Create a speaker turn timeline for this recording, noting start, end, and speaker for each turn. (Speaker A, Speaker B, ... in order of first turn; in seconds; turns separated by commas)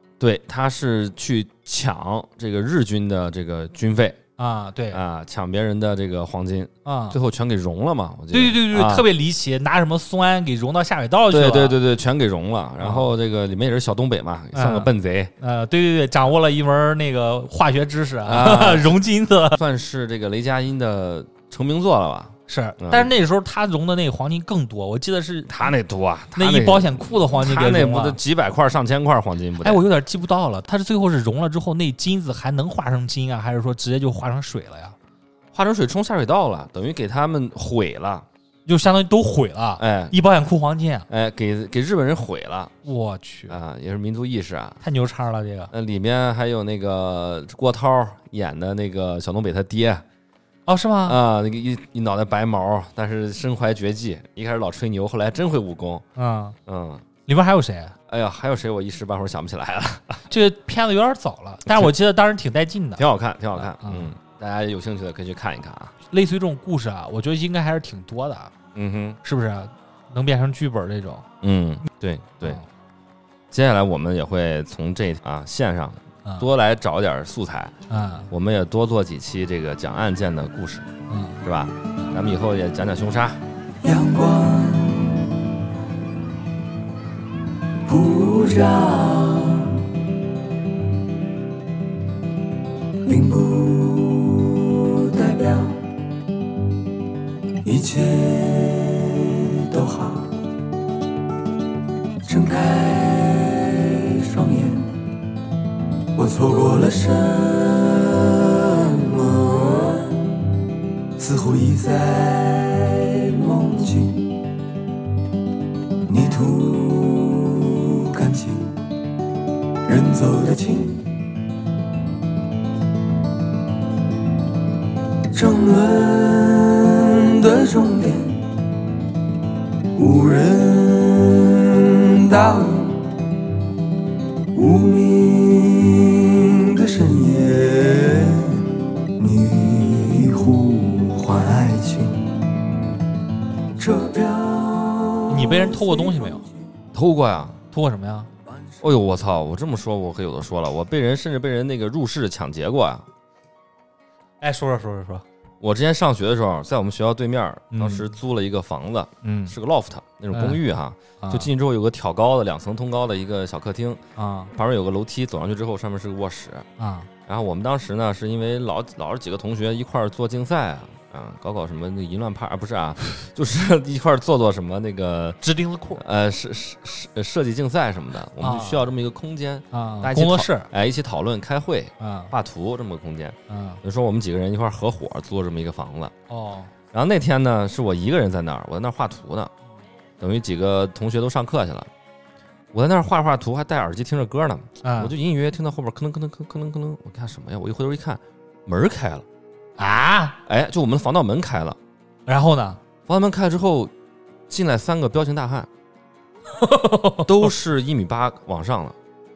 Speaker A: 0.2-4.2, Speaker B: 4.4-5.0, Speaker A: 4.9-9.1, Speaker B: 6.8-7.2, Speaker B: 8.3-11.8, Speaker A: 11.3-15.3, Speaker B: 12.8-13.1, Speaker B: 14.5-19.6, Speaker A: 18.2-19.0, Speaker A: 19.5-23.1, Speaker B: 22.5-25.6, Speaker A: 25.5-29.8, Speaker B: 26.4-28.2, Speaker B: 29.6-35.0, Speaker A: 35.5-38.3, Speaker B: 38.7-41.1, Speaker A: 39.8-40.1, Speaker A: 41.1-42.7, Speaker B: 42.8-43.6, Speaker A: 43.5-44.8, Speaker B: 44.8-45.7, Speaker A: 45.7-50.0, Speaker B: 50.7-51.2, Speaker A: 51.0-56.0, Speaker B: 56.2-56.6, Speaker A: 56.7-57.0, Speaker B: 57.3-58.0, Speaker A: 58.1-60.2, Speaker B: 60.3-63.0, Speaker A: 61.7-61.9, Speaker A: 63.0-65.9, Speaker B: 63.6-64.1, Speaker B: 66.1-68.5, Speaker A: 68.7-69.2, Speaker B: 69.2-71.3, Speaker A: 71.4-72.6, Speaker A: 73.5-77.8, Speaker B: 77.9-78.3, Speaker A: 78.3-80.9, Speaker B: 81.1-81.4, Speaker A: 81.4-83.4, Speaker C: 83.8-85.4, Speaker C: 87.9-89.9, Speaker C: 93.0-95.8, Speaker C: 97.6-100.4, Speaker C: 102.2-105.0, Speaker C: 106.2-110.2, Speaker C: 111.2-114.4, Speaker C: 116.1-118.8, Speaker C: 119.8-121.2, Speaker C: 125.3-128.5, Speaker C: 130.0-133.1, Speaker C: 134.5-142.5, Speaker C: 143.8-146.5, Speaker B: 145.3-146.4, Speaker A: 146.9-147.6, Speaker B: 147.7-148.3, Speaker A: 148.8-153.1, Speaker B: 154.4-155.2, Speaker A: 155.6-164.0, Speaker B: 157.7-158.1, Speaker B: 159.2-159.6, Speaker B: 160.3-160.6, Speaker B: 161.2-161.5, Speaker B: 164.2-164.5, Speaker A: 164.5-166.7, Speaker B: 166.8-167.1, Speaker A: 167.3-175.4, Speaker B: 175.4-176.0, Speaker A: 176.0-186.1, Speaker B: 178.4-178.9, Speaker B: 179.7-180.7, Speaker B: 182.0-182.3, Speaker B: 183.5-183.8, Speaker B: 186.3-186.7, Speaker A: 186.9-189.5, Speaker A: 190.2-191.9, Speaker A: 192.7-199.2, Speaker B: 194.8-195.2, Speaker B: 199.8-200.4, Speaker A: 200.5-201.8, Speaker B: 202.3-202.8, Speaker A: 203.1-203.9, Speaker A: 204.5-205.7, Speaker B: 206.5-207.5, Speaker A: 207.2-209.0